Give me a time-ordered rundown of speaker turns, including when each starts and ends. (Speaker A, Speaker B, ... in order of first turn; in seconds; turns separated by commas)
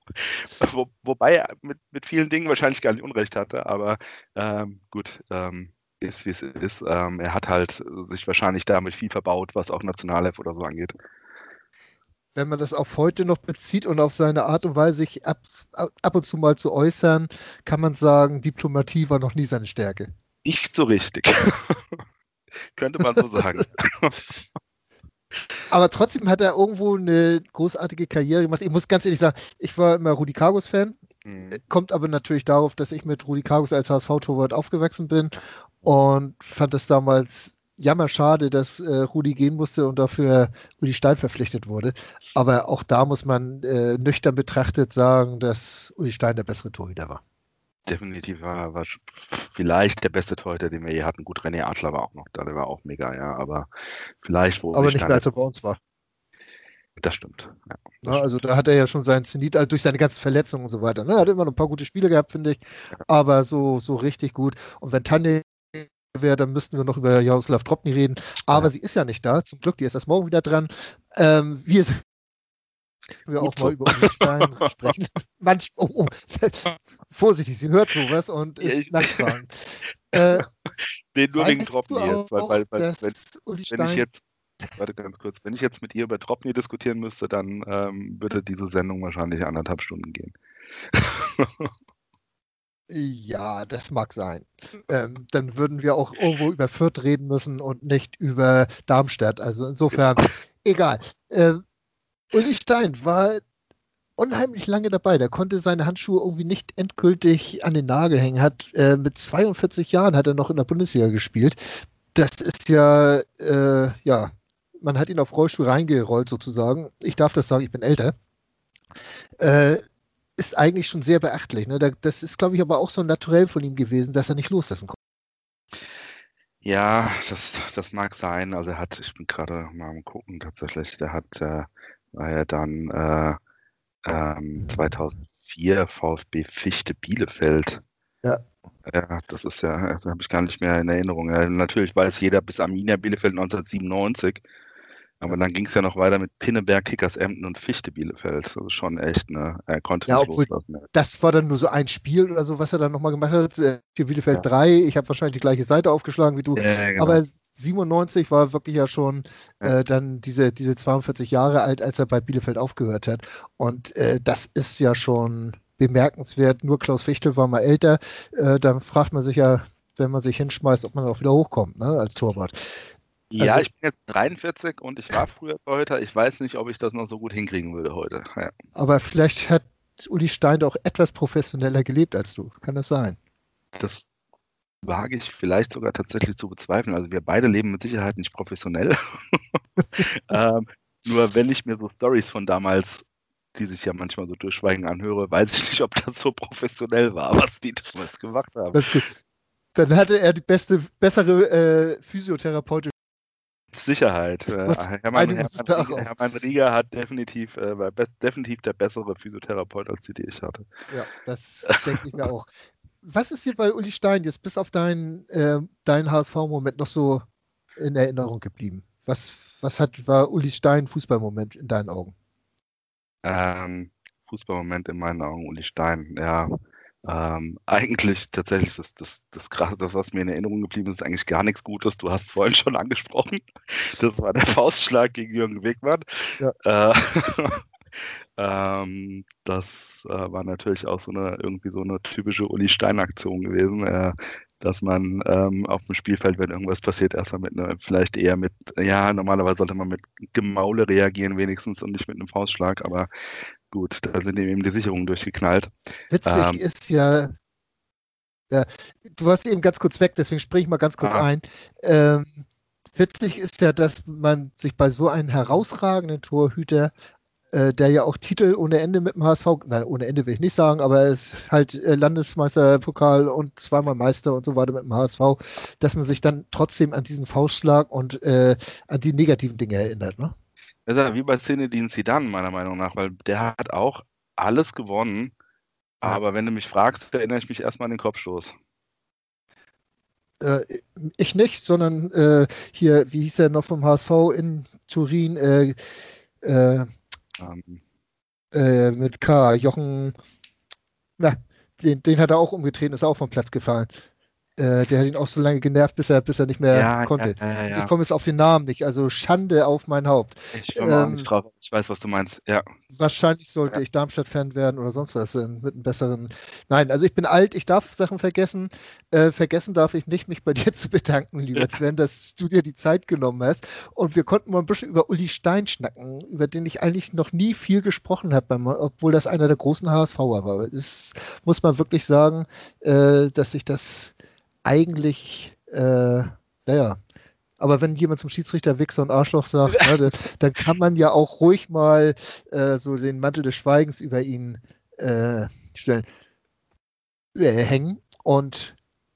Speaker A: 0.6-11.0, Speaker B: 12.3-20.1, Speaker A: 20.4-22.0, Speaker A: 22.8-24.3, Speaker B: 25.7-31.0, Speaker A: 31.2-31.6, Speaker B: 31.5-47.2, Speaker A: 47.9-53.7, Speaker A: 54.2-55.2, Speaker B: 54.7-55.8, Speaker A: 57.0-58.3, Speaker B: 58.0-72.0, Speaker B: 73.2-79.6, Speaker A: 73.4-74.5, Speaker A: 78.6-79.3, Speaker B: 80.1-80.5, Speaker A: 81.2-83.1, Speaker B: 81.3-84.1, Speaker A: 83.7-84.2, Speaker A: 84.8-90.3, Speaker A: 90.9-91.7, Speaker B: 92.9-101.6, Speaker B: 102.3-103.4, Speaker B: 104.2-111.6, Speaker B: 112.1-118.1, Speaker B: 119.4-119.8, Speaker B: 120.4-125.0, Speaker A: 126.6-133.4, Speaker A: 134.1-137.8, Speaker A: 138.9-144.4, Speaker A: 145.2-150.8, Speaker B: 150.1-172.6, Speaker A: 156.6-157.2, Speaker A: 173.3-178.5, Speaker B: 173.4-173.7, Speaker B: 178.8-183.2, Speaker A: 183.8-184.1, Speaker A: 184.9-189.4, Speaker A: 190.0-193.0, Speaker A: 193.6-199.0, Speaker B: 198.7-199.1, Speaker B: 199.8-202.9, Speaker A: 203.7-210.7, Speaker B: 204.6-206.1, Speaker B: 210.9-212.5, Speaker B: 213.0-217.2, Speaker B: 217.8-222.1, Speaker A: 223.2-226.5, Speaker A: 227.1-236.0, Speaker A: 236.6-237.6, Speaker A: 238.4-253.1, Speaker A: 253.7-255.7, Speaker B: 256.1-257.3, Speaker A: 256.2-256.6, Speaker B: 258.5-262.4, Speaker A: 261.0-261.3, Speaker B: 262.9-266.9, Speaker B: 267.5-280.3, Speaker A: 280.9-285.3, Speaker A: 286.0-288.5, Speaker B: 290.4-295.8, Speaker B: 296.4-296.9, Speaker A: 297.4-297.8, Speaker B: 298.5-300.1, Speaker B: 301.2-303.9, Speaker B: 304.6-311.3, Speaker A: 306.7-307.9, Speaker A: 310.5-312.7, Speaker B: 312.9-337.0, Speaker B: 337.6-346.1, Speaker B: 347.4-348.8